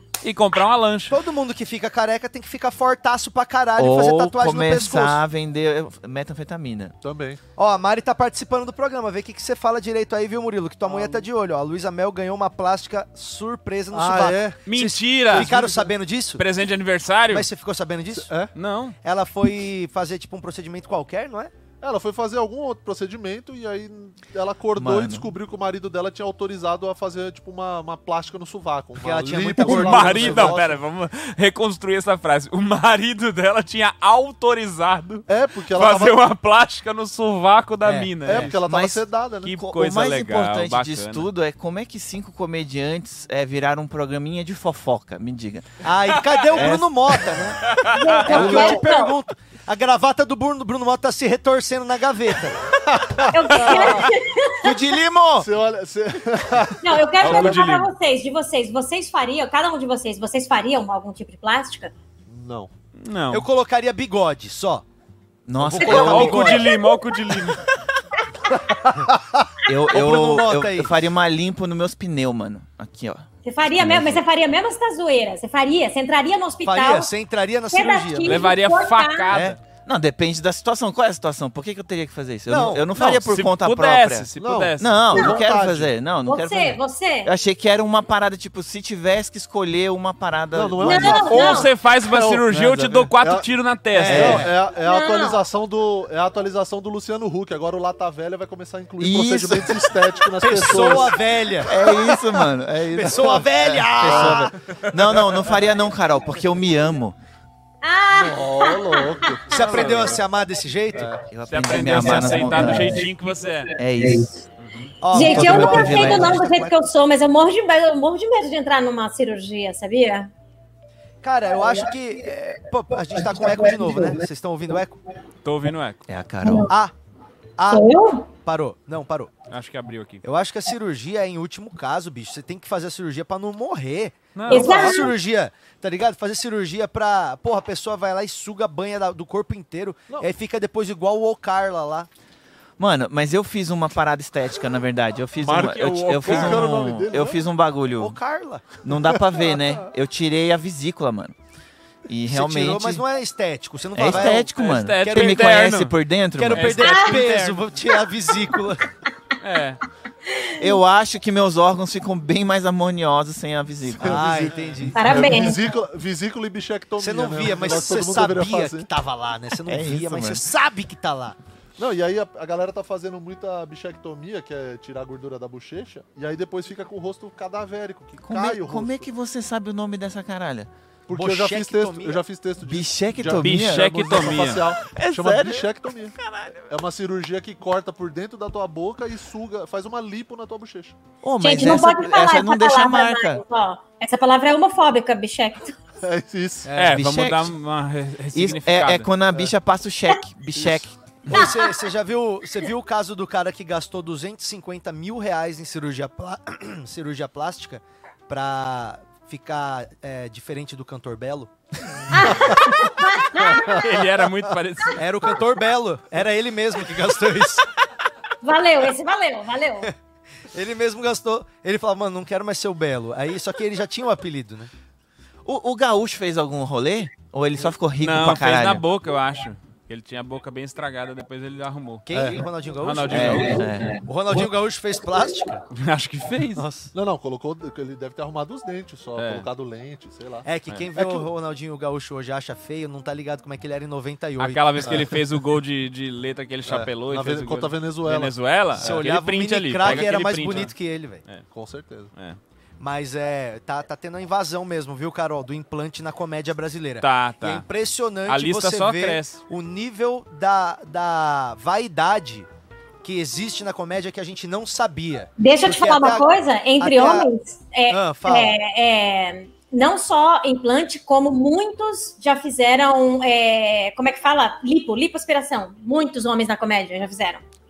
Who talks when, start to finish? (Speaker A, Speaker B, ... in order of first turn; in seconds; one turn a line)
Speaker A: 0.2-1.2
Speaker B: 1.1-5.2
Speaker C: 3.8-6.9
Speaker D: 7.0-7.4
Speaker B: 7.6-16.4
Speaker D: 10.8-11.3
Speaker D: 13.9-14.6
Speaker A: 14.7-15.5
Speaker D: 15.3-15.9
Speaker A: 16.4-17.5
Speaker B: 17.3-18.3
Speaker D: 18.1-18.5
Speaker A: 18.5-18.9
Speaker B: 19.0-21.5
Speaker D: 21.8-30.8
Speaker C: 24.8-25.3
Speaker B: 29.0-30.6
Speaker A: 29.6-38.5
Speaker D: 35.3-36.2
Speaker B: 37.8-38.5
Speaker D: 38.2-39.5
Speaker C: 38.6-45.8
Speaker A: 39.4-41.3
Speaker B: 45.8-47.6
Speaker C: 46.5-47.2
Speaker A: 47.7-48.7
Speaker E: 47.9-49.1
Speaker B: 48.2-52.6
Speaker D: 48.3-48.8
Speaker D: 52.7-54.1
Speaker E: 53.3-54.8
Speaker B: 53.6-54.0
Speaker C: 54.6-55.5
Speaker D: 55.4-57.7
Speaker E: 56.8-61.9
Speaker A: 57.2-57.9
Speaker D: 62.3-62.7
Speaker A: 63.0-63.5
Speaker B: 63.3-64.8
Speaker C: 65.5-66.7
Speaker B: 65.6-66.7
Speaker A: 65.8-67.6
Speaker E: 65.8-67.0
Speaker D: 68.6-69.5
Speaker C: 69.6-74.2
Speaker B: 69.9-70.9
Speaker E: 73.4-77.1
Speaker B: 76.6-78.5
Speaker E: 77.7-79.3
Speaker A: 78.2-79.6
Speaker B: 79.3-79.6
Speaker C: 79.8-84.3
Speaker B: 82.5-83.1
Speaker A: 83.0-84.9
Speaker D: 84.4-85.9
Speaker C: 84.8-91.3
Speaker E: 85.2-85.5
Speaker E: 86.2-87.3
Speaker D: 90.5-102.2
Speaker E: 90.8-91.7
Speaker A: 91.2-94.5
Speaker B: 93.9-94.5
Speaker C: 94.1-94.4
Speaker E: 94.8-95.4
Speaker C: 99.0-99.9
Speaker B: 100.4-101.8
Speaker C: 101.6-107.2
Speaker B: 102.9-104.5
Speaker D: 103.1-105.5
Speaker E: 107.8-109.6
Speaker D: 108.1-110.2
Speaker B: 109.5-111.1
Speaker D: 110.9-111.2
Speaker C: 111.3-113.1
Speaker A: 111.5-113.7
Speaker C: 113.8-114.3
Speaker A: 114.6-115.0
Speaker B: 115.0-116.7
Speaker C: 115.1-116.5
Speaker E: 115.1-120.3
Speaker B: 121.2-124.9
Speaker A: 125.4-126.1
Speaker C: 126.1-126.7
Speaker E: 126.4-126.7
Speaker B: 127.6-129.3
Speaker E: 127.7-128.3
Speaker A: 129.5-130.2
Speaker B: 130.2-142.1
Speaker A: 134.3-135.1
Speaker E: 134.5-135.1
Speaker C: 142.8-148.2
Speaker A: 145.4-146.7
Speaker D: 145.5-147.4
Speaker B: 148.0-148.6
Speaker C: 148.8-151.3
Speaker C: 152.1-153.0
Speaker B: 152.3-155.8
Speaker C: 153.9-156.9
Speaker A: 154.1-155.9
Speaker B: 156.4-158.8
Speaker A: 156.5-157.6
Speaker E: 156.9-157.2
Speaker A: 159.4-159.8
Speaker E: 160.3-160.7
Speaker C: 160.6-164.5
Speaker D: 163.9-168.9
Speaker B: 164.0-165.3
Speaker E: 164.9-165.7
Speaker B: 167.0-171.4
Speaker C: 169.7-170.4
Speaker D: 171.8-179.1
Speaker C: 178.2-180.7
Speaker D: 181.1-186.2
Speaker B: 181.1-182.2
Speaker C: 182.6-184.2
Speaker A: 183.4-184.7
Speaker C: 184.8-186.7
Speaker D: 186.7-190.9
Speaker C: 191.2-193.4
Speaker E: 191.4-195.7
Speaker D: 196.0-196.9
Speaker A: 196.7-199.1
Speaker C: 196.8-197.5
Speaker C: 198.3-200.9
Speaker D: 200.6-200.8
Speaker B: 201.3-211.5
Speaker E: 201.3-201.7
Speaker E: 212.1-213.7
Speaker B: 212.2-212.5
Speaker D: 212.3-212.6
Speaker D: 213.4-213.8
Speaker A: 213.6-215.0
Speaker B: 214.9-217.7
Speaker E: 218.4-219.9
Speaker B: 220.5-224.7
Speaker C: 225.4-228.8
Speaker A: 228.0-232.1
Speaker B: 232.1-235.6
Speaker D: 232.1-232.4
Speaker A: 232.8-233.8
Speaker C: 233.1-234.0
Speaker A: 235.7-236.6
Speaker B: 236.6-236.9
Speaker D: 236.9-241.3
Speaker A: 239.2-239.5
Speaker B: 240.4-245.0
Speaker A: 244.4-250.7
Speaker D: 244.8-245.2
Speaker D: 246.7-249.1
Speaker B: 248.8-251.2
Speaker D: 249.8-250.7
Speaker D: 251.5-252.1
Speaker B: 252.8-262.5
Speaker A: 257.0-257.6
Speaker A: 258.3-259.4
Speaker B: 263.0-267.3
Speaker E: 265.4-277.4
Speaker B: 267.9-268.6